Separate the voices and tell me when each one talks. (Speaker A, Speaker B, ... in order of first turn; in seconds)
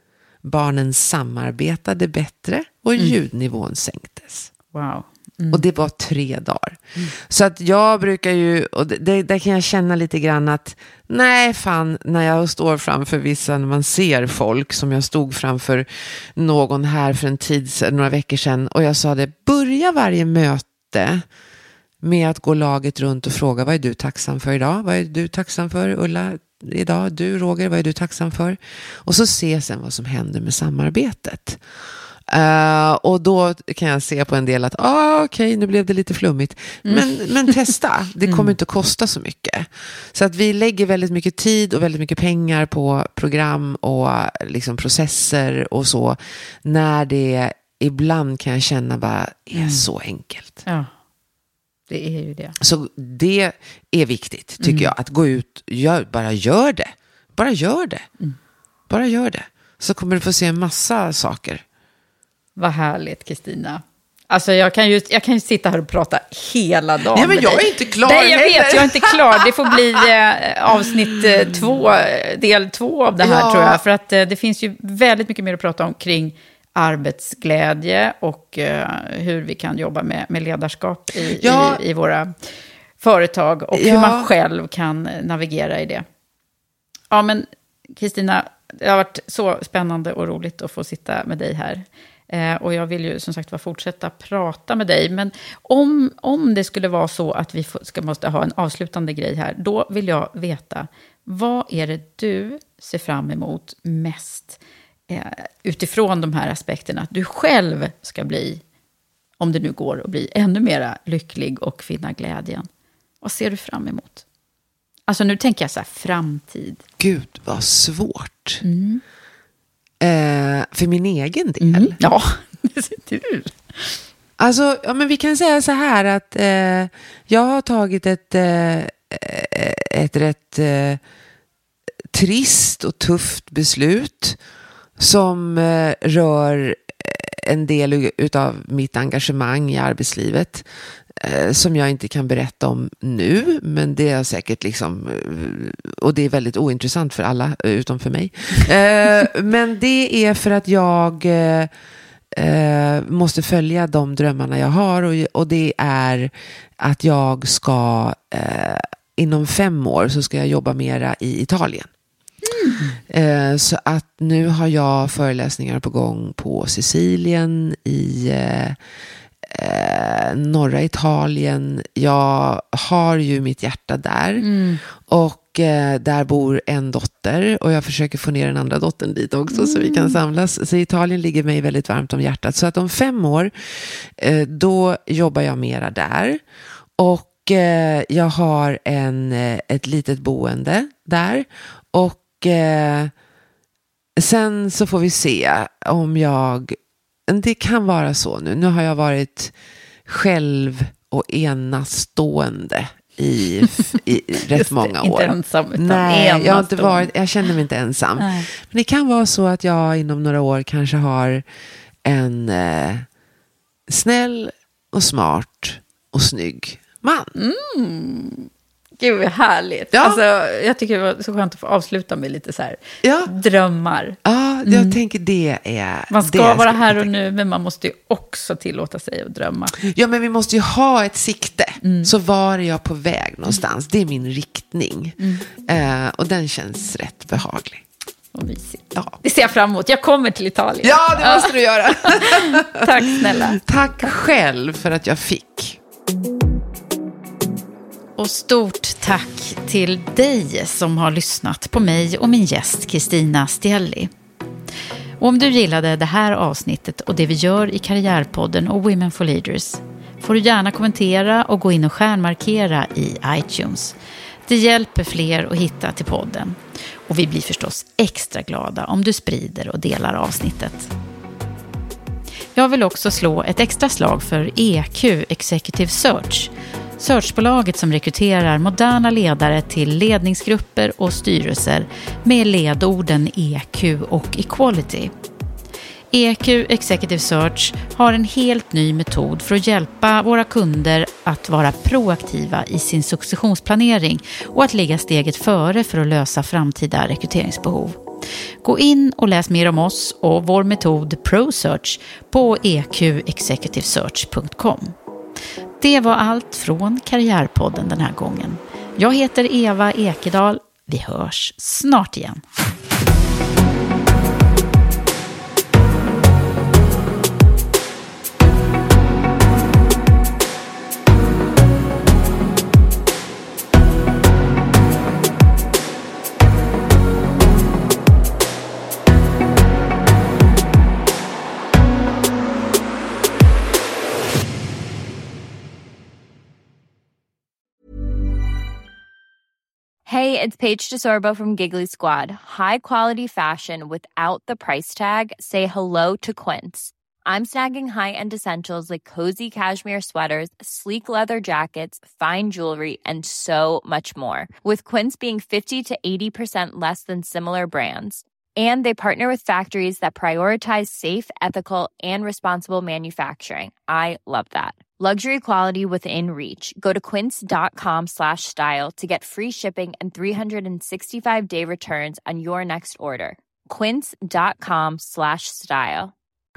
Speaker A: 0.4-4.5, 5.5-21.2, 22.0-31.6, 32.3-50.6, 52.6-58.1, 58.9-61.6, 67.1-69.7, 73.2-73.8, 81.4-81.8, 83.7-84.3, 117.0-118.6, 120.0-122.0, 124.4-131.0, 132.1-134.4, 135.0-151.7, 152.3-161.9, 163.1-168.8, 169.4-186.4, 187.0-193.1, 194.2-199.5, 200.1-211.4, 212.0-213.1, 213.9-217.3, 219.9-220.2, 223.0-223.3, 224.2-227.1, 229.8-237.8, 240.8-245.8
Speaker B: 4.7-5.6, 36.8-37.7, 38.2-38.5, 49.5-49.9, 50.6-50.9, 51.9-52.5, 54.6-54.9, 62.6-82.3, 83.0-86.0, 87.1-108.6, 109.4-112.7, 113.2-114.2, 115.1-116.8, 118.6-119.0, 121.6-124.0, 162.4-163.0, 174.4-174.8, 179.5-180.2, 204.5-207.1, 208.2-208.5, 217.3-225.0, 226.1-229.7, 231.8-232.1, 235.2-235.4, 238.3-244.1, 248.2-254.1, 255.2-263.9, 264.5-270.9, 272.6-285.1, 286.1-298.0, 298.6-304.9, 305.8-312.4
Speaker C: 340.1-376.1